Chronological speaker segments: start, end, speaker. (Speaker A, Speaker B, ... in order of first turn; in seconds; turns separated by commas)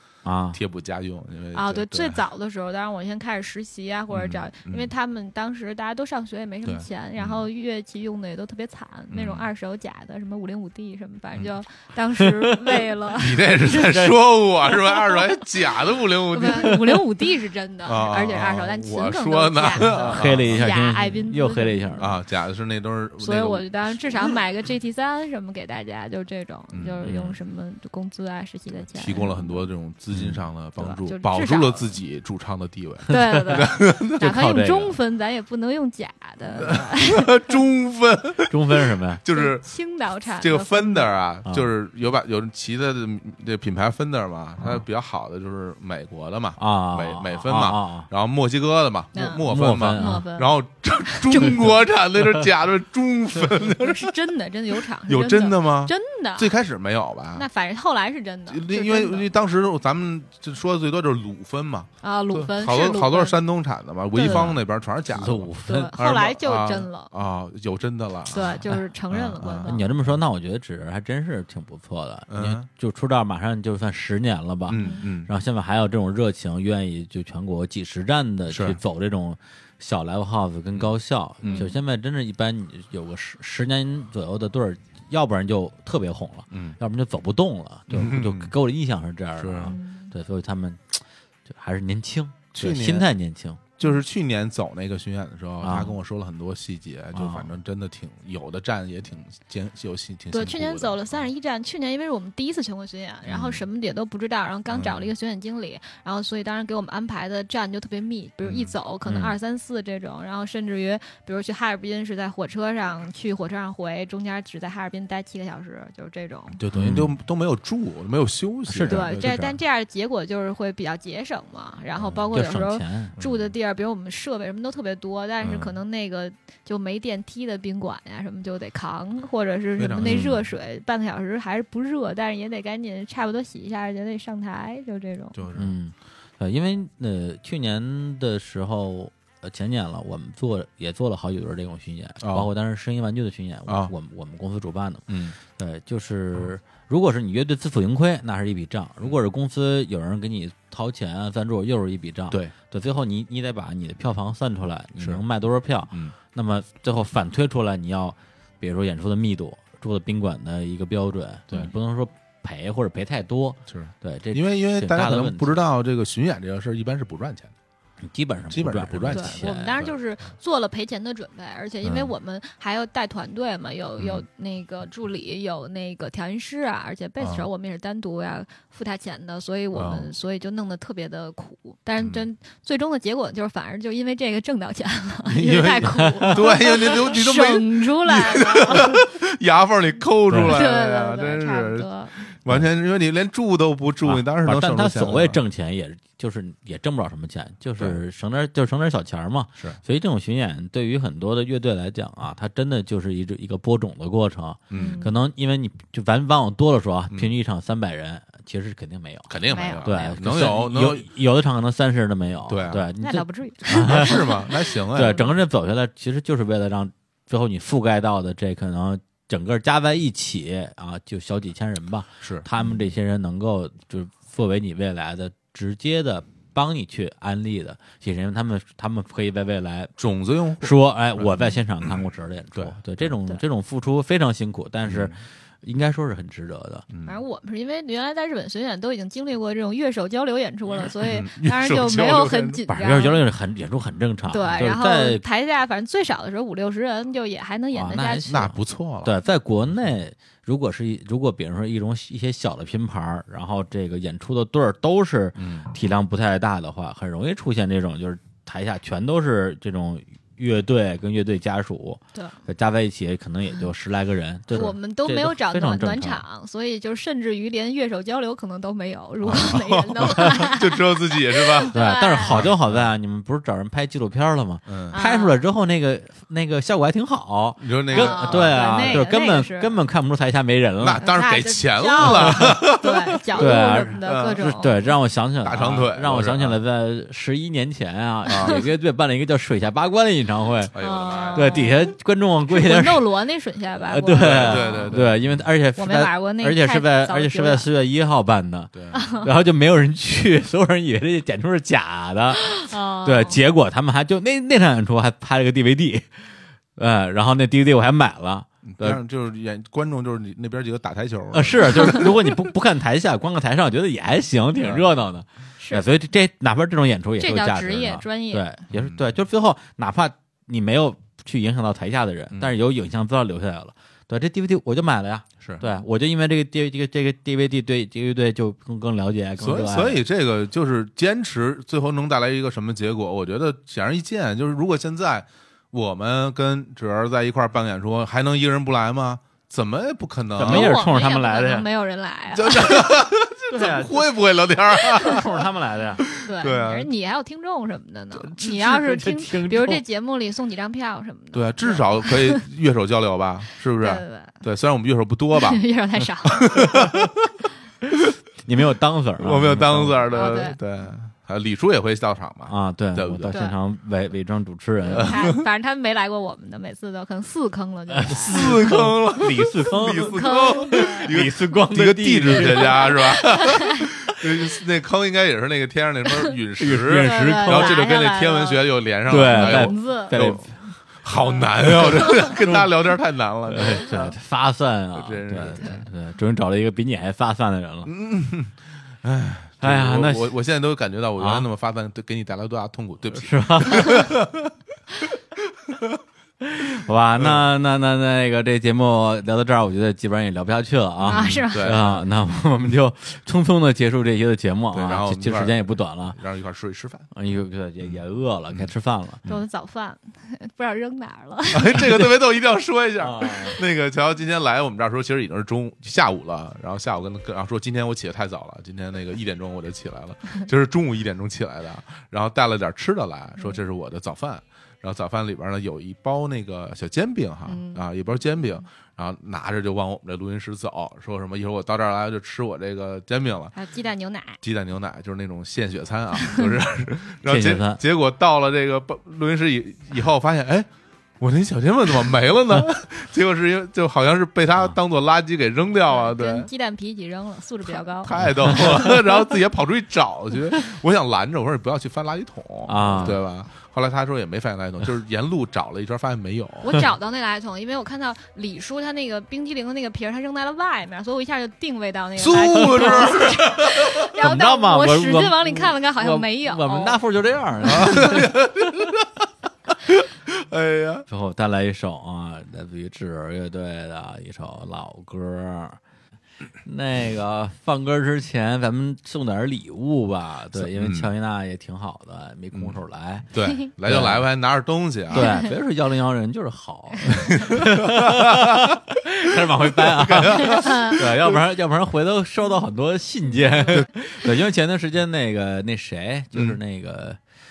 Speaker A: 0.2-0.6, Speaker B: 0.5-2.2, Speaker C: 1.5-14.1, Speaker B: 4.1-4.9, Speaker B: 6.6-7.4, Speaker B: 9.1-9.5, Speaker A: 12.2-12.8, Speaker B: 13.1-16.9, Speaker A: 13.8-14.1, Speaker C: 14.7-15.5, Speaker C: 16.3-22.1, Speaker B: 17.8-20.6, Speaker A: 20.1-22.1, Speaker B: 22.0-24.4, Speaker C: 23.2-29.7, Speaker B: 26.7-27.3, Speaker A: 27.0-27.3, Speaker B: 28.9-34.2, Speaker A: 30.1-30.4, Speaker C: 30.8-31.9, Speaker C: 33.1-37.5, Speaker A: 33.1-34.9, Speaker B: 36.5-39.6, Speaker A: 38.5-39.2, Speaker C: 39.3-41.1, Speaker B: 40.4-54.2, Speaker A: 46.6-48.1, Speaker C: 49.1-50.5, Speaker A: 49.2-50.2, Speaker C: 51.0-51.6, Speaker C: 53.8-56.5, Speaker B: 55.0-57.4, Speaker C: 57.3-59.3, Speaker B: 58.5-70.2, Speaker C: 62.0-63.4, Speaker C: 64.1-64.6, Speaker A: 65.1-65.9, Speaker C: 65.6-67.1, Speaker C: 68.3-69.8, Speaker A: 69.6-93.7, Speaker B: 72.3-72.7, Speaker B: 74.7-75.3, Speaker C: 74.8-75.0, Speaker B: 78.5-78.8, Speaker B: 80.7-81.7, Speaker C: 81.4-81.7, Speaker B: 86.5-86.8, Speaker B: 87.9-88.5, Speaker B: 89.4-89.8, Speaker C: 89.6-90.1, Speaker B: 92.5-93.1, Speaker B: 93.8-101.2, Speaker A: 95.6-95.9, Speaker A: 97.1-97.5, Speaker C: 100.3-116.6, Speaker B: 103.3-103.6, Speaker B: 104.7-105.1, Speaker B: 108.4-108.7, Speaker A: 109.0-109.3, Speaker B: 116.6-119.5, Speaker A: 116.7-117.1, Speaker A: 118.7-119.5, Speaker C: 118.8-135.4, Speaker A: 122.3-123.1, Speaker B: 123.2-123.4, Speaker B: 125.4-125.8, Speaker B: 129.8-130.2, Speaker A: 130.0-130.4, Speaker B: 135.3-135.7, Speaker A: 135.5-165.6, Speaker B: 142.2-142.5, Speaker B: 143.7-143.9, Speaker B: 145.1-145.3, Speaker B: 155.0-155.2, Speaker B: 163.7-167.5, Speaker A: 168.0-169.8, Speaker B: 168.5-169.9, Speaker C: 169.1-189.0, Speaker B: 171.8-172.1, Speaker B: 174.0-174.2, Speaker B: 177.2-177.5, Speaker B: 179.7-180.1, Speaker B: 182.0-182.2, Speaker B: 185.3-191.9, Speaker A: 186.0-186.4, Speaker A: 190.3-190.6, Speaker C: 190.5-192.2, Speaker B: 192.4-195.4, Speaker A: 194.0-209.3, Speaker B: 204.7-205.1, Speaker C: 204.7-205.1, Speaker B: 209.3-211.1, Speaker C: 209.4-209.9, Speaker A: 209.8-214.2, Speaker B: 212.5-212.9, Speaker C: 213.0-215.3, Speaker B: 213.7-215.3, Speaker A: 214.9-229.9, Speaker B: 222.2-222.7, Speaker B: 230.0-232.8, Speaker A: 230.6-236.8, Speaker B: 234.8-235.2, Speaker B: 236.9-237.2, Speaker C: 237.0-243.2, Speaker B: 241.0-242.6, Speaker A: 242.7-245.2, Speaker C: 244.3-248.4, Speaker A: 247.7-266.2, Speaker B: 248.3-249.1, Speaker B: 255.4-255.7, Speaker C: 262.1-262.4, Speaker C: 264.5-272.4, Speaker B: 269.2-271.7, Speaker A: 271.7-281.0, Speaker B: 272.2-272.9, Speaker B: 274.7-275.0, Speaker C: 274.9-275.4, Speaker B: 277.6-279.0, Speaker C: 277.9-279.8, Speaker B: 280.8-284.7, Speaker C: 281.0-284.9, Speaker A: 282.0-282.6, Speaker A: 283.4-290.7, Speaker B: 285.4-286.6, Speaker B: 288.3-288.6, Speaker B: 290.7-291.7, Speaker C: 290.8-291.8, Speaker A: 291.3-293.1, Speaker C: 292.5-295.0, Speaker A: 293.9-306.2, Speaker B: 294.1-295.4, Speaker C: 295.8-297.7, Speaker B: 298.7-299.0, Speaker C: 298.9-299.3, Speaker C: 302.4-303.4, Speaker A: 306.8-309.0, Speaker B: 308.7-312.3, Speaker A: 311.3-330.0, Speaker B: 314.6-314.9, Speaker C: 315.6-315.9, Speaker C: 317.2-318.5, Speaker B: 318.7-319.0, Speaker B: 329.4-340.8, Speaker A: 340.4-341.6, Speaker C: 340.4-343.0, Speaker B: 342.3-345.2, Speaker A: 343.5-344.1, Speaker A: 344.9-346.0, Speaker B: 346.0-346.9, Speaker C: 346.2-352.4, Speaker A: 348.1-349.8, Speaker B: 351.3-355.6, Speaker C: 353.8-354.4, Speaker C: 355.3-356.9, Speaker B: 356.3-357.3, Speaker A: 358.4-360.3, Speaker B: 359.2-363.4, Speaker C: 360.1-360.6, Speaker A: 362.5-365.2, Speaker C: 363.3-363.6, Speaker B: 364.9-365.4, Speaker C: 364.9-368.8, Speaker A: 367.9-373.2, Speaker B: 368.1-380.5, Speaker C: 369.9-371.1, Speaker C: 372.5-373.9, Speaker A: 376.6-377.8, Speaker C: 376.9-380.2, Speaker A: 379.1-380.6, Speaker B: 381.0-384.1, Speaker A: 381.6-382.7, Speaker A: 383.5-387.9, Speaker B: 384.9-385.8, Speaker B: 387.9-394.5, Speaker A: 389.6-390.4, Speaker A: 391.2-391.4, Speaker A: 393.2-394.3, Speaker B: 395.7-396.0, Speaker A: 396.4-406.2, Speaker B: 397.2-397.5, Speaker C: 401.1-401.8, Speaker B: 401.1-402.0, Speaker B: 404.7-407.1, Speaker A: 407.1-409.2, Speaker C: 409.2-412.0, Speaker B: 411.5-433.5, Speaker A: 413.0-413.6, Speaker C: 427.5-427.8, Speaker C: 433.5-434.4, Speaker B: 434.4-440.7, Speaker C: 436.2-436.5, Speaker A: 437.2-437.8, Speaker B: 441.2-446.5, Speaker C: 445.9-449.0, Speaker B: 447.7-456.8, Speaker A: 448.2-448.6, Speaker A: 452.6-453.2, Speaker C: 456.6-467.0, Speaker B: 462.1-464.1, Speaker A: 462.8-463.2, Speaker A: 464.2-468.3, Speaker B: 467.6-471.0, Speaker A: 471.1-475.8, Speaker A: 476.6-483.3, Speaker B: 480.5-481.1, Speaker B: 482.5-482.8, Speaker B: 483.3-485.4, Speaker A: 483.8-484.3, Speaker A: 485.1-497.2, Speaker C: 485.1-485.5, Speaker B: 487.1-488.8, Speaker B: 489.6-491.4, Speaker C: 490.5-491.0